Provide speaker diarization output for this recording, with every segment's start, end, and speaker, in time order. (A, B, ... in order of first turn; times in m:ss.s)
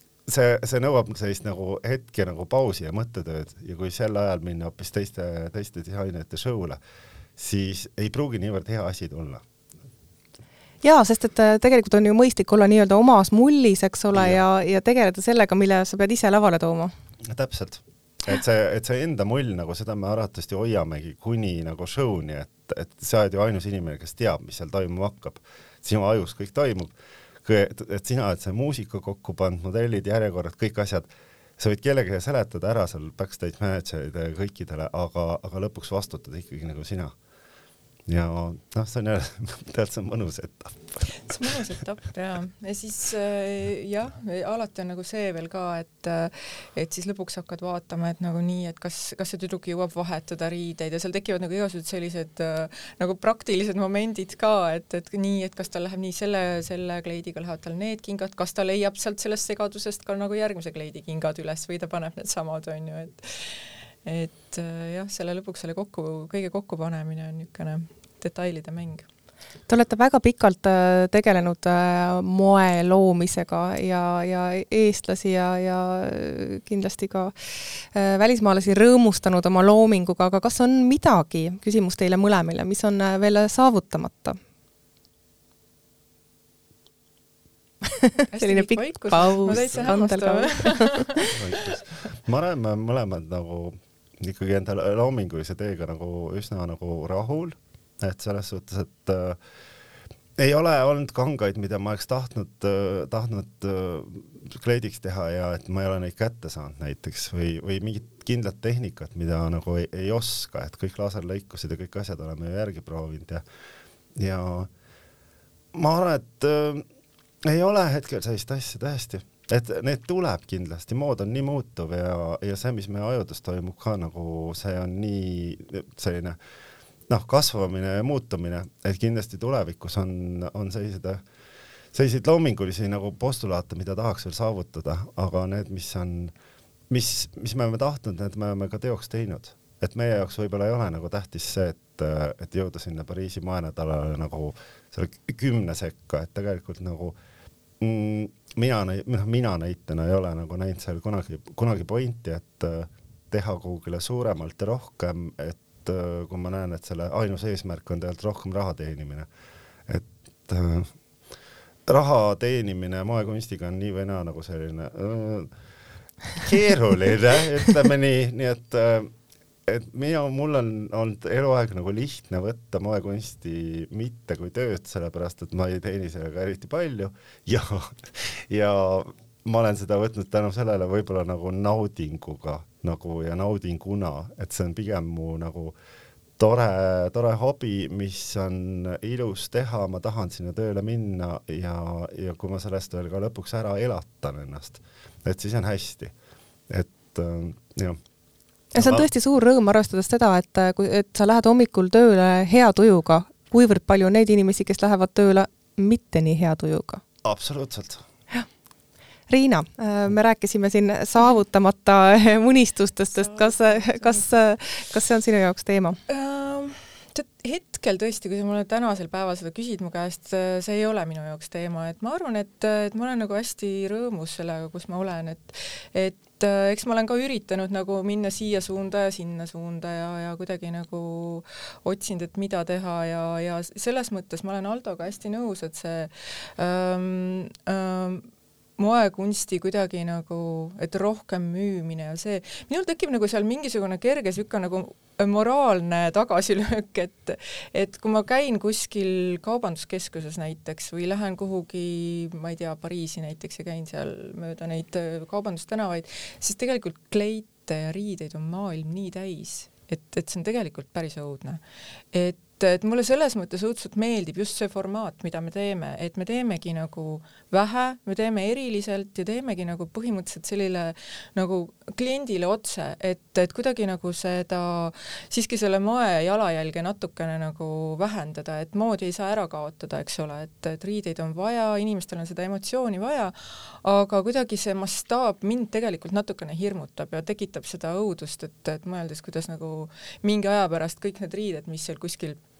0:00.3-0:06.8 A
0:07.4-0:09.4 A
0:10.8-0:16.9 B
0:14.1-0:14.4 A
0:17.2-0:26.9 A
0:27.4-0:37.1 A
0:38.1-0:41.6 A
0:41.1-1:09.0 C
1:09.7-1:17.3 B
1:17.9-1:24.4 B
1:27.8-1:31.3 B
1:28.3-1:31.6 C
1:31.3-1:39.4 A
1:40.4-1:53.4 A
1:54.2-1:54.7 A
1:55.7-1:56.8 A
1:57.4-2:06.4 A
2:07.1-2:11.2 A
2:11.9-2:16.3 A
2:16.9-2:27.2 A
2:27.8-2:39.3 A
2:39.9-2:40.9 A
2:41.9-2:45.5 A
2:46.4-2:49.1 A
2:49.6-3:05.7 A
3:06.4-3:16.1 A
3:16.7-3:18.0 A
3:18.7-3:27.0 B
3:18.7-3:19.1 A
3:27.2-3:28.0 A
3:29.3-3:36.0 B
3:33.1-3:34.2 C
3:36.1-3:58.3 C
3:58.8-4:21.6 C
4:22.1-4:52.4 C